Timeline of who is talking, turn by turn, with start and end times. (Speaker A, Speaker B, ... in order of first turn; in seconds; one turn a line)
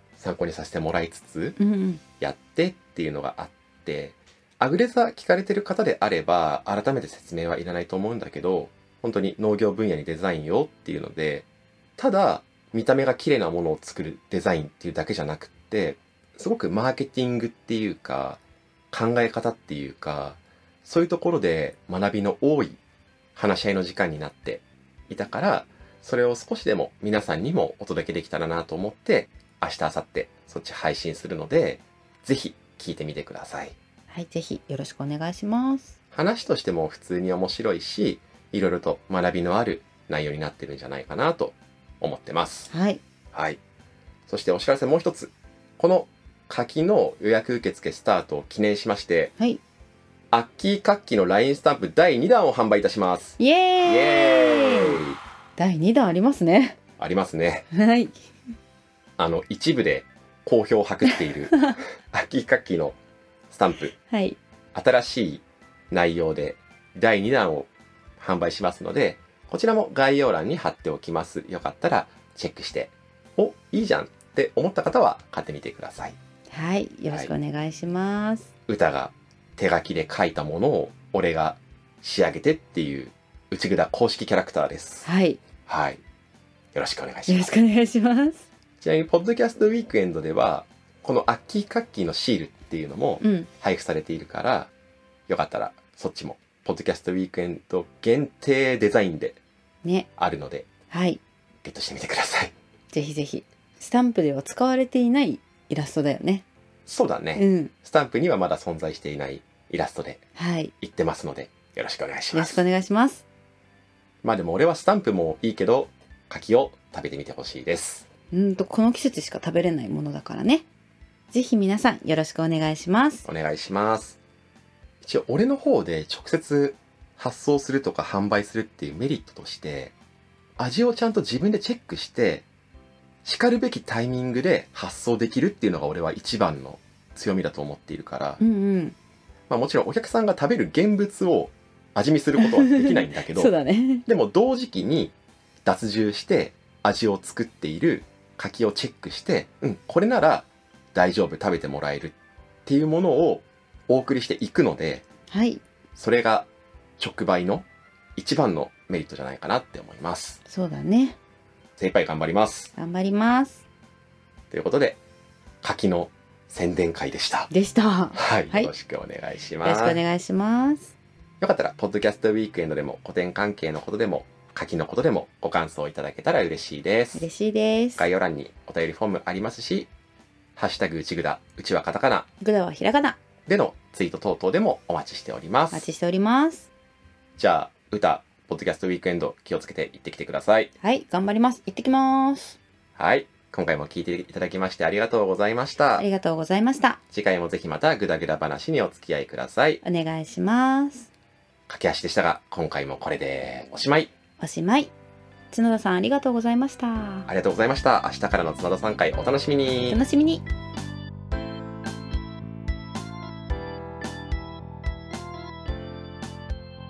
Speaker A: 0.2-1.6
Speaker B: 1.6-2.0
Speaker A: 2.2-18.4
Speaker A: 18.9-22.8
Speaker A: 23.3-33.8
Speaker B: 34.1-35.9
Speaker A: 36.1-42.7
Speaker B: 42.7-43.0
Speaker A: 43.3-43.6
Speaker A: 44.3-49.3
Speaker A: 50.3-55.2
Speaker B: 53.4-55.0
Speaker B: 55.6-56.8
Speaker A: 57.0-57.7
Speaker B: 57.7-58.1
Speaker A: 59.2-63.0
Speaker A: 63.5-63.9
Speaker B: 64.1-64.4
Speaker A: 64.7-76.2
Speaker B: 76.5-78.4
Speaker A: 78.7-85.1
Speaker B: 85.0-85.4
Speaker A: 85.7-86.0
Speaker A: 86.7-87.6
Speaker B: 87.3-88.4
Speaker A: 88.8-94.7
Speaker B: 93.2-93.5
Speaker A: 95.3-99.4
Speaker A: 100.2-100.7
Speaker B: 100.9-101.2
Speaker A: 101.6-102.5
Speaker B: 102.9-106.4
Speaker A: 106.8-110.2
Speaker B: 107.3-107.7
Speaker B: 110.4-110.7
Speaker A: 110.8-112.6
Speaker B: 112.3-113.2
Speaker A: 114.2-118.1
Speaker B: 118.3-120.6
Speaker B: 121.3-123.2
Speaker A: 123.2-124.2
Speaker A: 125.0-129.9
Speaker A: 130.6-132.4
Speaker A: 133.2-138.4
Speaker B: 138.4-138.9
Speaker A: 139.5-143.5
Speaker B: 142.4-144.0
Speaker A: 144.1-152.1
Speaker A: 152.7-155.0
Speaker B: 155.3-155.6
Speaker A: 155.9-156.5
Speaker A: 157.0-160.4
Speaker B: 160.5-161.2
Speaker A: 161.8-162.7
Speaker B: 162.8-163.6
Speaker A: 164.5-165.0
Speaker A: 165.6-167.5
Speaker B: 167.5-168.7
Speaker A: 168.2-170.0
Speaker B: 169.6-170.9
Speaker A: 171.4-177.3
Speaker B: 177.1-178.1
Speaker A: 177.9-179.9
Speaker A: 180.6-182.3
Speaker B: 182.4-183.2
Speaker A: 183.4-185.9
Speaker B: 185.7-186.7
Speaker A: 187.4-190.7
Speaker B: 190.8-192.5
Speaker A: 192.9-196.1
Speaker B: 196.0-197.0
Speaker A: 197.1-199.8
Speaker B: 199.8-201.1
Speaker A: 201.7-204.1
Speaker B: 204.4-204.9
Speaker B: 205.5-207.3
Speaker A: 207.2-210.0
Speaker B: 209.9-210.4